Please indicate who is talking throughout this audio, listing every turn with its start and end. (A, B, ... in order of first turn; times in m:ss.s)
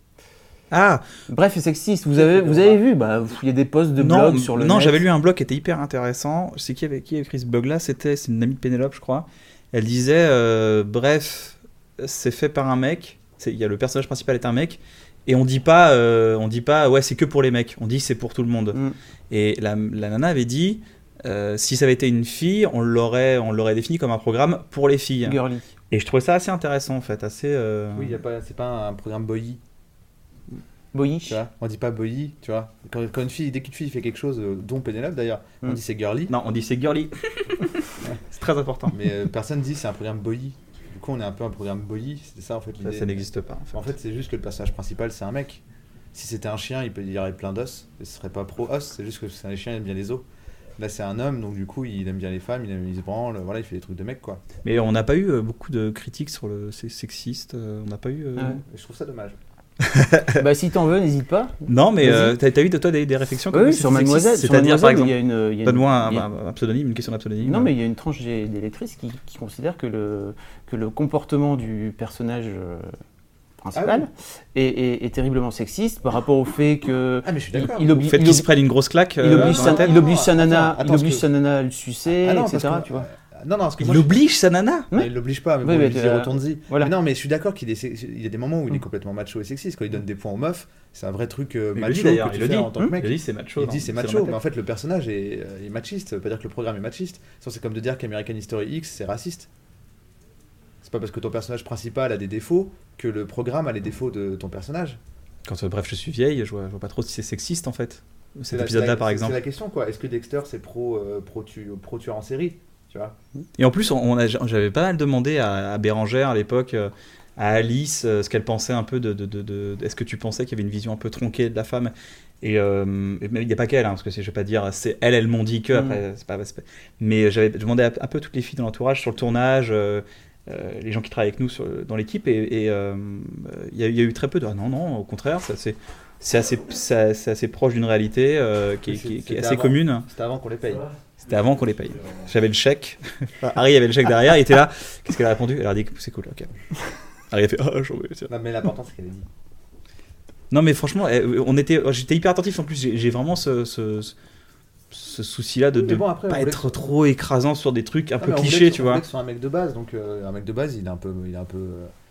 0:00.7-0:01.0 A
0:01.3-0:05.0 B
0:02.1-0:02.8 C
0:04.0-0:28.2 A
0:25.2-0:25.6 B
0:27.9-0:29.6 C
0:30.9-0:31.4 B
0:31.3-0:36.3 C
0:36.3-0:39.0 A
0:38.9-0:45.6 C
0:42.8-0:43.9 A
0:46.1-0:50.2 C
0:50.8-0:54.4 C
0:54.6-0:58.6 A
0:58.4-0:58.6 B
0:58.6-0:59.4 C
0:59.9-1:00.4 A
1:00.3-1:02.4 B
1:01.7-1:07.7 A
1:03.5-1:06.3 B
1:07.4-1:12.9 B
1:13.6-1:18.5 B
1:13.7-1:14.1 C
1:17.2-1:17.9 C
1:17.8-1:20.0 A
1:19.2-1:23.1 B
1:19.2-1:21.3 C
1:22.1-1:24.2 C
1:23.8-1:24.9 A
1:24.9-1:26.9 B
1:24.9-1:39.5 C
1:31.8-1:34.4 A
1:40.8-1:45.0 C
1:45.4-1:49.4 A
1:48.5-1:53.2 C
1:53.6-2:20.1 A
2:18.9-2:20.9 C
2:21.2-2:26.5 A
2:27.3-2:28.3 A
2:28.3-2:29.3 C
2:30.5-2:34.1 A
2:34.9-2:39.0 A
2:35.7-2:36.8 C
2:38.2-2:41.9 C